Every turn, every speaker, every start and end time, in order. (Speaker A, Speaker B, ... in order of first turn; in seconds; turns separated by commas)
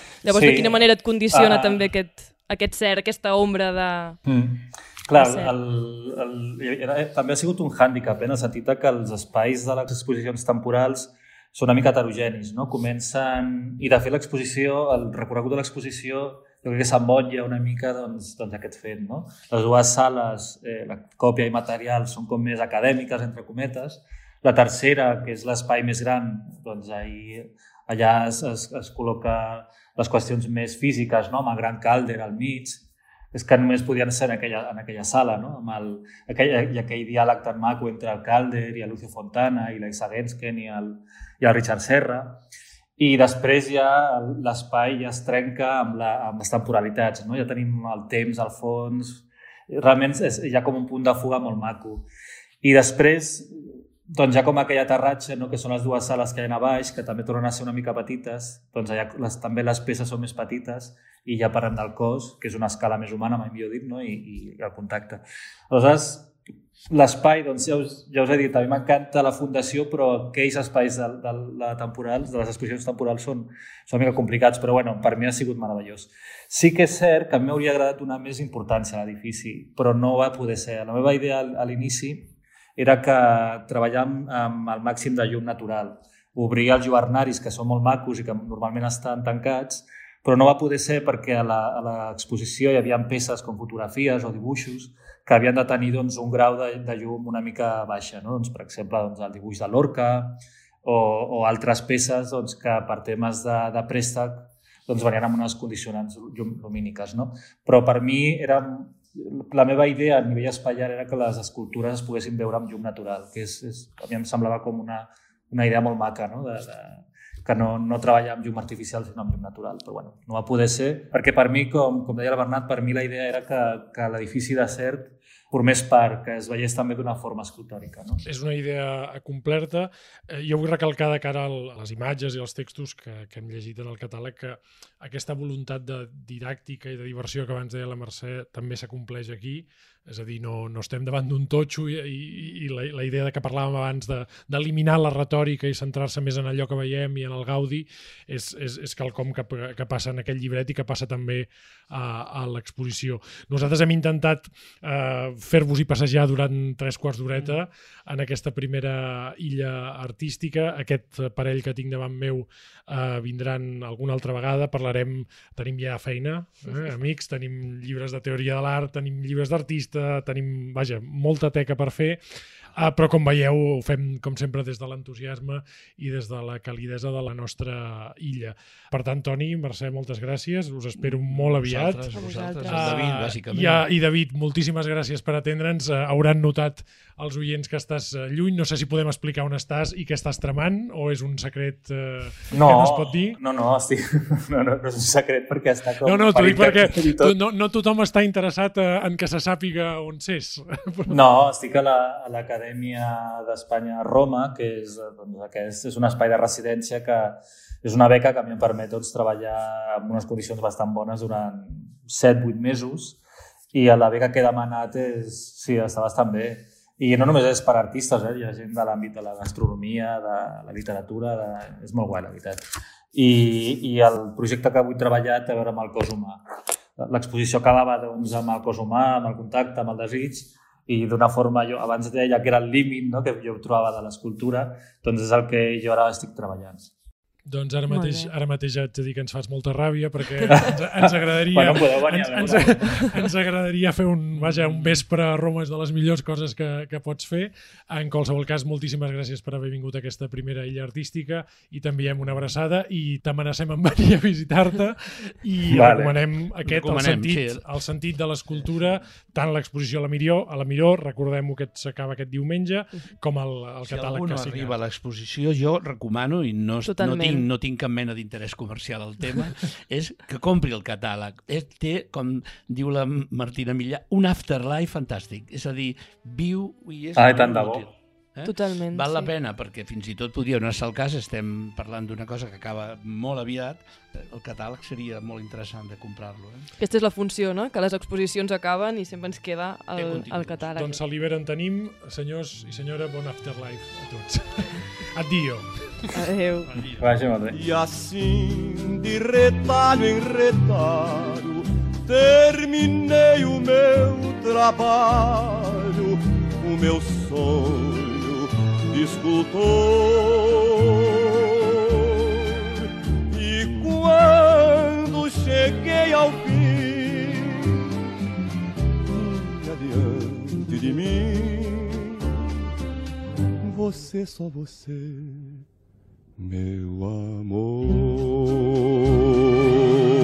Speaker A: 0.2-4.2, Speaker B: 0.3-0.8, Speaker B: 1.3-1.8, Speaker B: 4.3-32.8, Speaker A: 5.1-5.5, Speaker B: 33.3-42.4, Speaker B: 43.0-52.0, Speaker B: 52.6-66.3, Speaker B: 66.9-128.2, Speaker C: 128.2-172.2, Speaker C: 172.8-193.4, Speaker D: 181.0-183.8, Speaker A: 182.1-183.1, Speaker B: 192.5-197.3, Speaker C: 196.0-201.2, Speaker B: 201.1-213.2, Speaker B: 213.7-222.6, Speaker B: 223.1-226.4, Speaker B: 227.0-236.9, Speaker C: 237.5-264.8, Speaker A: 237.9-238.3, Speaker B: 240.5-243.1, Speaker B: 255.7-256.1, Speaker D: 256.6-257.6, Speaker D: 263.9-286.7, Speaker A: 266.8-267.4, Speaker B: 277.1-277.8, Speaker A: 278.4-279.3, Speaker A: 286.8-291.0, Speaker D: 289.9-290.7, Speaker C: 290.8-296.1, Speaker A: 296.1-296.7, Speaker B: 297.0-297.6, Speaker E: 297.5-317.8, Speaker E: 319.1-322.3, Speaker E: 323.6-325.6, Speaker E: 326.4-329.1